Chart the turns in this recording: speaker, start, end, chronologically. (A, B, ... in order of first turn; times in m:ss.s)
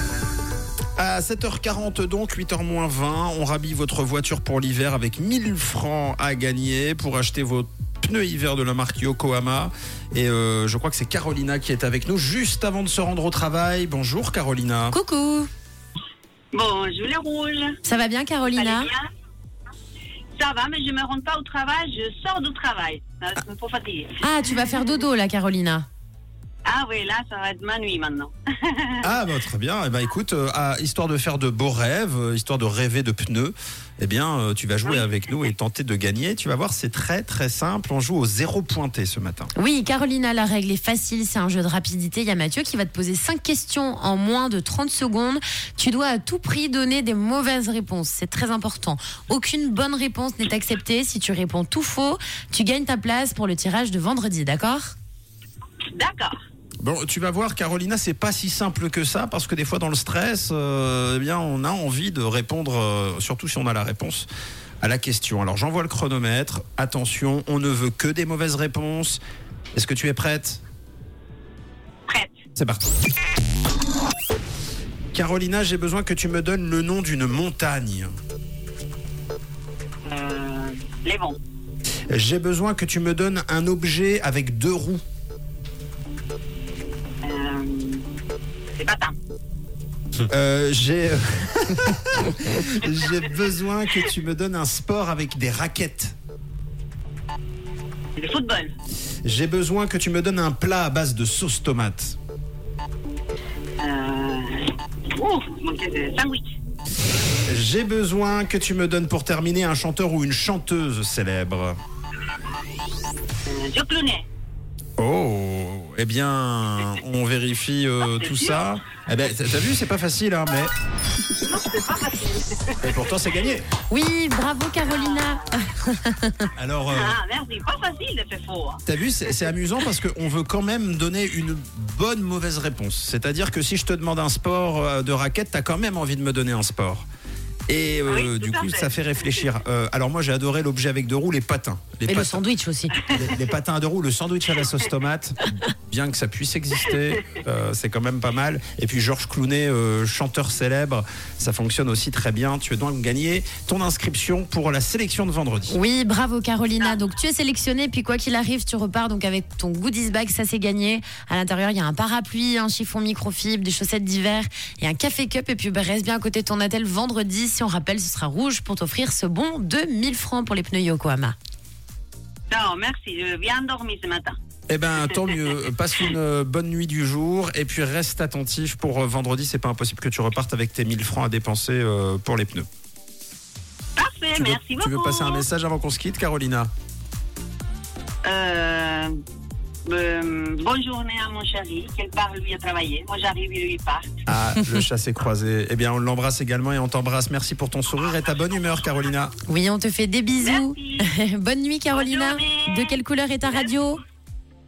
0:01.0-0:15.0 A
0:14.9-0:15.5 B
0:16.5-0:17.8 C
0:17.8-0:18.9 B
0:18.5-0:19.1 C
0:20.4-0:24.2 C
0:24.2-0:25.9 B
0:26.6-0:29.1 C
0:29.0-0:39.5 A
0:39.6-0:55.0 B
0:55.9-0:56.4 C
0:56.8-1:04.3 A
1:04.8-1:09.2 A
1:09.7-1:10.6 A
1:12.1-1:12.3 C
1:12.6-1:12.8 A
1:15.1-1:18.1 A
1:20.1-1:21.4 C
1:22.1-1:25.0 A
1:27.2-1:28.1 C
1:28.8-1:29.2 C
1:30.3-1:36.2 A
1:38.2-1:38.7 C
1:39.2-1:42.2 A
1:43.8-1:46.5 C
1:47.5-1:51.8 A
1:53.5-1:54.3 C
1:55.0-2:00.7 A
1:58.0-1:58.7 C
2:01.4-2:03.2 C
2:02.8-2:03.7 A
2:03.9-2:06.5 B
2:04.9-2:05.4 C
2:06.6-2:07.2 A
2:06.9-2:08.8 C
2:08.9-2:17.1 A
2:17.7-2:22.4 A
2:18.1-2:19.5 C
2:22.1-2:23.0 B
2:23.1-2:35.8 A
2:35.7-2:51.4 B
2:52.5-2:54.4 C
2:54.7-3:02.7 A
3:04.0-3:05.5 C
3:04.4-3:06.7 A
3:08.2-3:09.2 C
3:09.9-3:14.2 C
3:14.3-3:19.4 A
3:19.5-3:24.0 B
3:20.4-3:21.1 C
3:21.9-3:23.0 C